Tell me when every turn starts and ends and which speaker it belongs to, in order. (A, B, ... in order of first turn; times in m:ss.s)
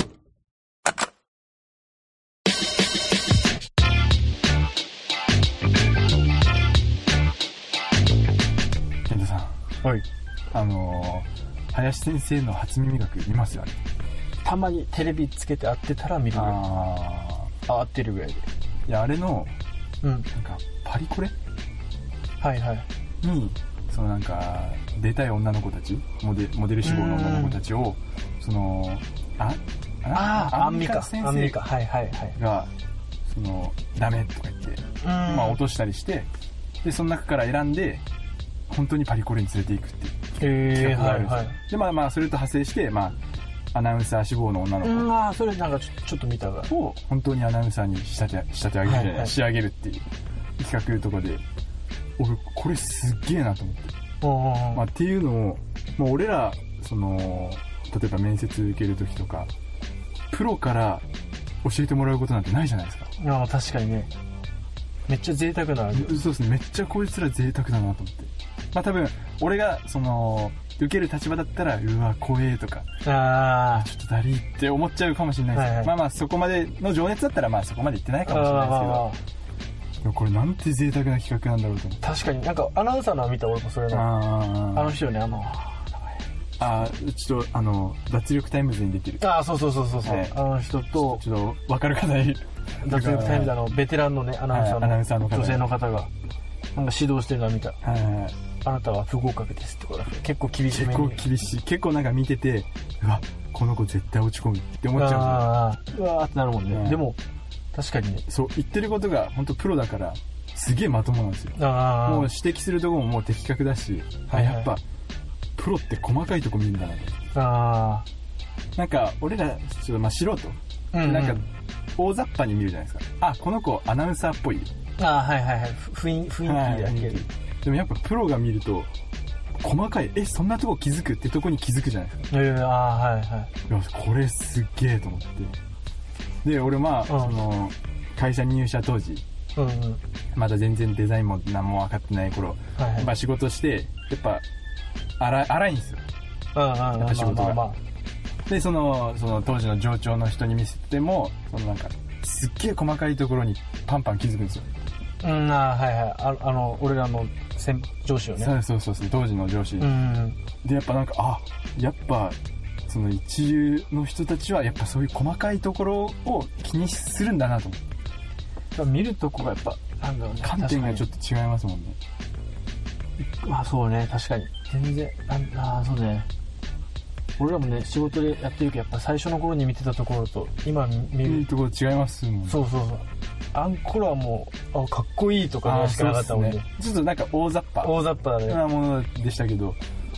0:09.1-0:09.5 A
0:10.5-0:13.8 A
0:14.4-0:16.6 B
0:16.3-0:17.5 A
0:17.6-0:18.4 B
0:18.9-0:19.5 A
0:20.0-0:20.3 B
0:20.3-0:21.3 A
0:22.4-0:22.9 B
0:23.2-0:31.6 A
0:26.8-0:27.6 B
0:30.1-0:32.4 B
0:32.4-0:32.7 A
0:33.3-0:36.3 A
0:35.0-0:35.6 B
0:36.8-0:38.0 A
0:38.7-0:43.2 A
0:40.4-0:41.6 B
0:43.7-0:45.1 A
0:44.8-0:46.7 B
0:46.7-0:50.0 A
0:48.8-0:49.3 B
0:50.6-0:51.4 A
0:52.2-0:53.9 A
0:54.2-0:54.8 B
0:54.7-0:59.5 A
1:00.3-1:01.0 A
1:01.6-1:03.1 A
1:03.2-1:04.1 B
1:05.1-1:06.2 B
1:05.9-1:12.8 A
1:13.0-1:13.9 B
1:13.7-1:19.1 A
1:15.5-1:15.9 B
1:18.2-1:19.2 B
1:20.0-1:22.0 A
1:22.0-1:24.1 B
1:23.9-1:25.0 A
1:24.7-1:26.7 B
1:26.6-1:29.2 A
1:29.2-1:31.2 B
1:30.0-1:30.3 A
1:30.9-1:33.6 A
1:32.8-1:36.1 B
1:34.5-1:35.7 A
1:36.7-1:37.8 B
1:37.8-1:38.3 A
1:38.6-1:41.2 B
1:40.7-1:45.5 A
1:44.9-1:47.2 B
1:46.7-1:47.0 A
1:47.7-1:48.2 B
1:48.3-1:54.8 A
1:51.6-1:52.3 B
1:54.3-1:54.7 B
1:55.6-1:57.1 A
1:57.3-1:58.0 B
1:58.8-2:04.7 A
2:00.9-2:01.4 B
2:05.0-2:07.2 B
2:06.4-2:08.9 A
2:09.6-2:12.2 A
2:12.3-2:13.5 B
2:13.7-2:15.6 A
2:16.4-2:19.2 A
2:17.1-2:17.3 B
2:19.6-2:20.0 B
2:20.3-2:24.4 A
2:22.8-2:23.1 B
2:25.2-2:26.0 A
2:26.5-2:27.8 B
2:26.9-2:27.6 A
2:28.5-2:34.6 A
2:35.2-2:38.5 B
2:38.4-2:39.9 A
2:39.8-2:40.4 B
2:40.6-2:47.8 A
2:48.7-2:51.1 B
2:50.4-2:52.0 A
2:53.2-2:56.3 B
2:57.4-3:01.5 B
3:01.2-3:02.6 A
3:02.5-3:06.6 B
3:05.6-3:09.8 A
3:07.8-3:08.6 B